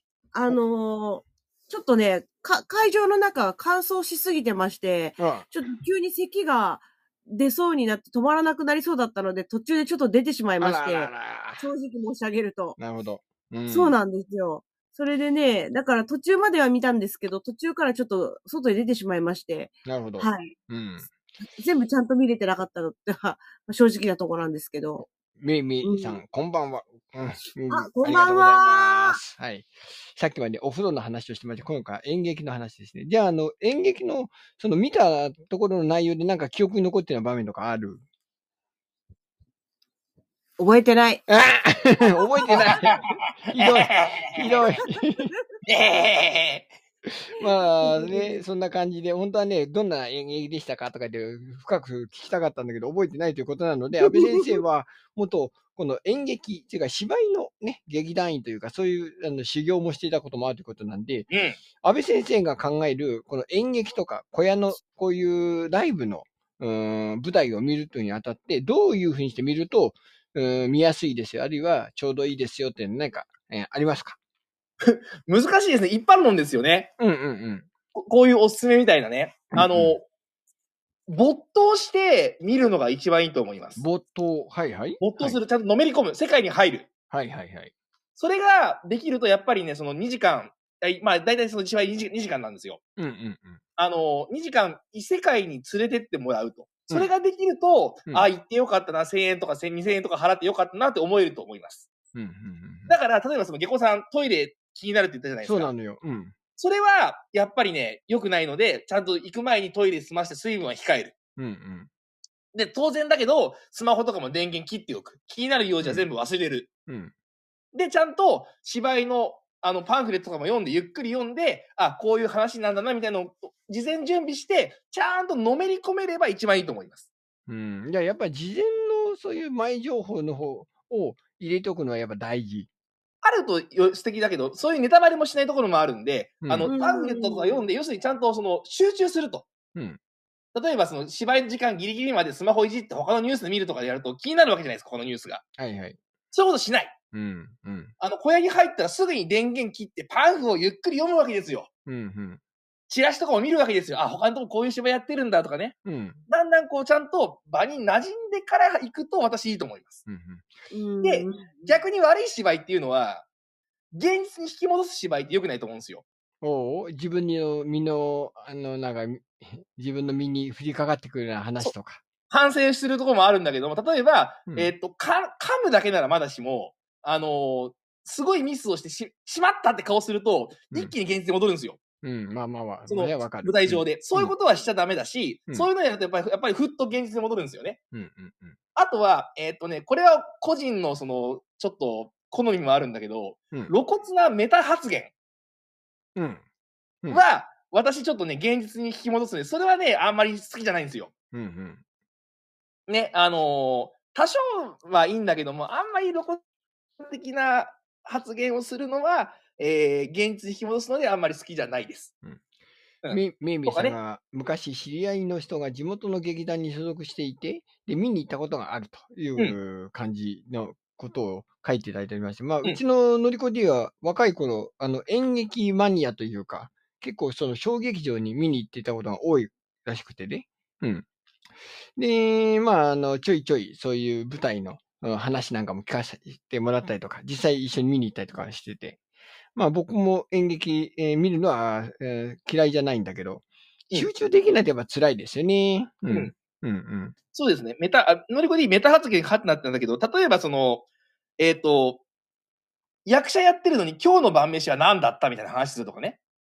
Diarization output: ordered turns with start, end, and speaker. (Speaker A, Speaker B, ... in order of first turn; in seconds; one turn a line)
Speaker A: 0.3-12.8
Speaker B: 5.2-5.5
Speaker B: 10.6-11.7
Speaker B: 12.8-14.0
Speaker A: 13.7-20.5
Speaker B: 19.9-21.1
Speaker A: 21.5-25.0
Speaker B: 25.0-38.0
Speaker A: 25.8-26.2
Speaker A: 27.7-29.2
Speaker A: 40.6-41.2
Speaker B: 41.3-45.3
Speaker A: 42.0-42.7
Speaker C: 42.5-44.6
Speaker C: 45.7-46.7
Speaker B: 47.1-61.3
Speaker A: 47.8-48.4
Speaker A: 54.0-54.6
Speaker C: 61.3-61.6
Speaker B: 61.8-74.2
Speaker C: 74.8-76.9
Speaker B: 77.0-77.7
Speaker C: 78.0-80.0
Speaker B: 79.5-80.0
Speaker C: 81.1-83.8
Speaker B: 83.8-85.4
Speaker C: 85.0-86.9
Speaker B: 87.1-87.7
Speaker C: 88.2-92.8
Speaker B: 93.0-93.6
Speaker C: 93.8-101.9
Speaker B: 102.2-103.0
Speaker C: 102.9-105.7
Speaker B: 105.4-106.3
Speaker C: 106.6-111.1
Speaker B: 111.4-111.9
Speaker C: 112.5-116.7
Speaker B: 115.8-116.1
Speaker B: 116.9-117.1
Speaker C: 117.7-127.1
Speaker B: 127.5-132.7
Speaker C: 133.2-139.5
Speaker B: 136.4-136.7
Speaker A: 136.7-137.7
Speaker C: 140.6-145.4
Speaker B: 145.6-146.0
Speaker C: 146.3-146.9
Speaker B: 147.1-147.9
Speaker C: 148.0-151.7
Speaker B: 151.9-152.4
Speaker C: 152.9-155.8
Speaker B: 155.8-156.2
Speaker C: 156.3-160.0
Speaker B: 160.1-160.5
Speaker A: 160.7-161.8
Speaker C: 161.0-163.3
Speaker C: 163.9-166.0
Speaker B: 166.4-172.0
Speaker C: 172.3-181.8
Speaker B: 174.5-174.7
Speaker B: 182.0-184.3
Speaker C: 182.9-187.8
Speaker B: 187.9-188.6
Speaker C: 188.8-195.1
Speaker B: 196.2-196.4
Speaker C: 197.1-201.1
Speaker B: 201.3-201.8
Speaker C: 202.9-206.4
Speaker C: 207.0-212.1
Speaker C: 213.0-213.9
Speaker B: 213.1-231.1
Speaker B: 232.0-239.0
Speaker B: 239.6-247.2
Speaker C: 247.3-250.8
Speaker C: 251.4-252.0
Speaker C: 253.1-256.2